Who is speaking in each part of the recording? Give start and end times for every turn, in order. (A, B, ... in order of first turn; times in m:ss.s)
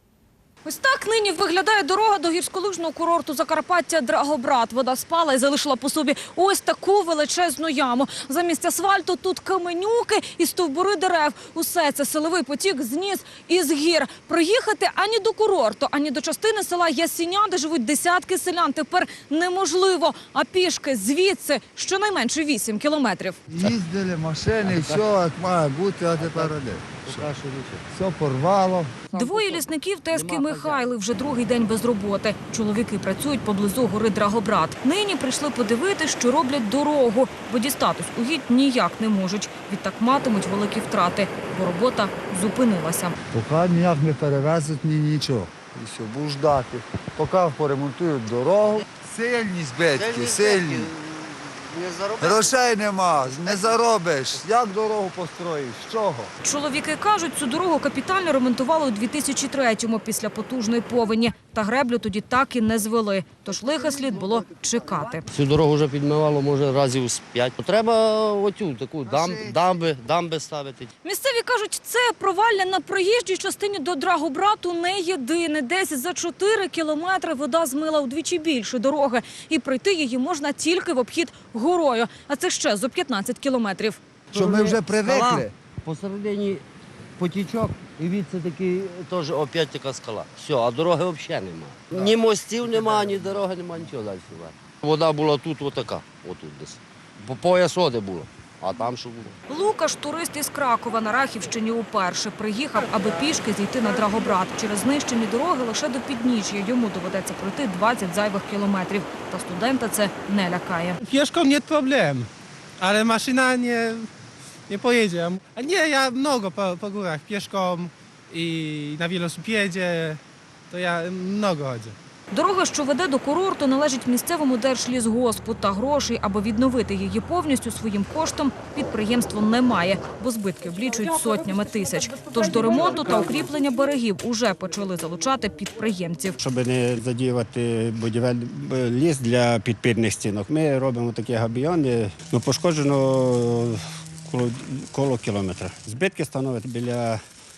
0:00.6-0:23.6 A
0:23.5-0:27.3 B
0:24.6-0:25.0 C
0:26.2-0:27.8 C
0:27.9-0:29.0 B
0:29.1-0:43.2 A
0:29.1-0:29.5 C
0:30.1-0:30.9 C
0:43.3-0:50.9 B
0:50.0-0:52.5 C
0:52.2-0:56.3 B
0:56.4-1:05.3 A
1:05.3-1:10.9 C
1:09.1-1:09.6 B
1:11.0-1:24.0 A
1:24.3-1:26.6 C
1:24.3-1:25.5 B
1:27.2-1:39.4 C
1:39.5-1:51.0 A
1:51.0-1:52.3 D
1:52.8-1:54.1 D
1:54.7-2:02.0 D
2:02.3-2:16.4 A
2:16.4-2:27.2 E